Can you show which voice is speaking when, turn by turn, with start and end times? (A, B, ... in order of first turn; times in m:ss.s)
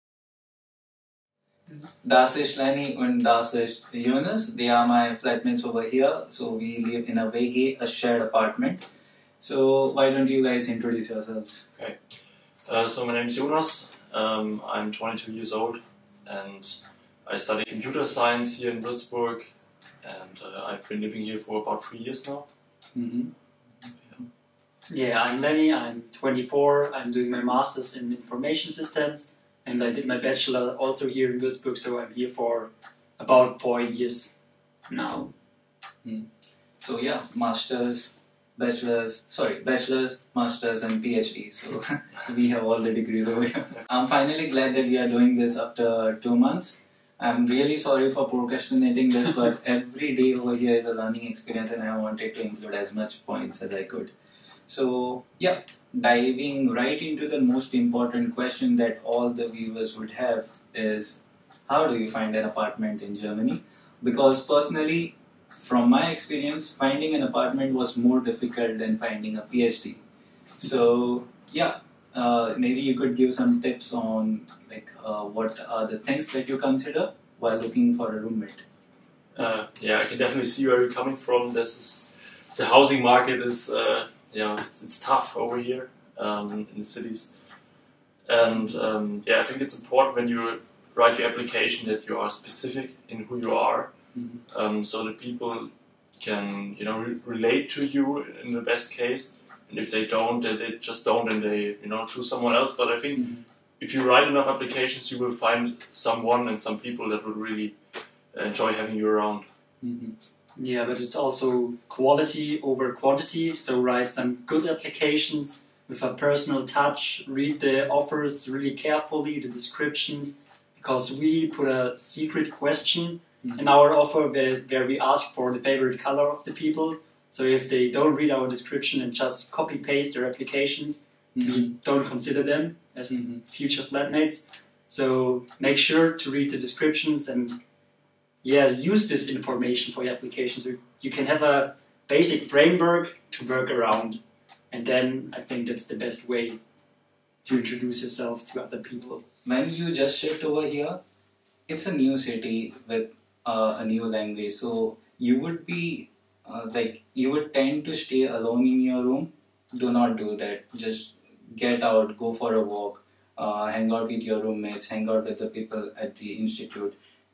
0:02.0-0:08.8 A
0:09.4-0:11.6 A
0:11.8-0:19.5 B
0:20.0-0:22.5 B
0:22.9-0:23.3 A
0:24.9-0:34.4 C
0:34.9-0:35.3 C
0:36.8-0:54.1 A
0:54.7-1:10.0 A
1:10.6-1:18.6 A
1:19.3-1:27.4 B
1:28.2-1:34.0 B
1:34.1-1:34.4 A
1:34.5-1:43.2 B
1:43.1-1:43.4 A
1:43.8-1:47.8 B
1:48.3-1:49.5 B
1:49.8-1:50.1 A
1:50.6-2:17.6 C
2:03.4-2:03.7 A
2:11.3-2:11.7 A
2:13.1-2:13.4 A
2:18.4-2:26.6 C
2:27.4-2:29.2 C
2:29.4-2:31.0 A
2:31.7-2:47.0 A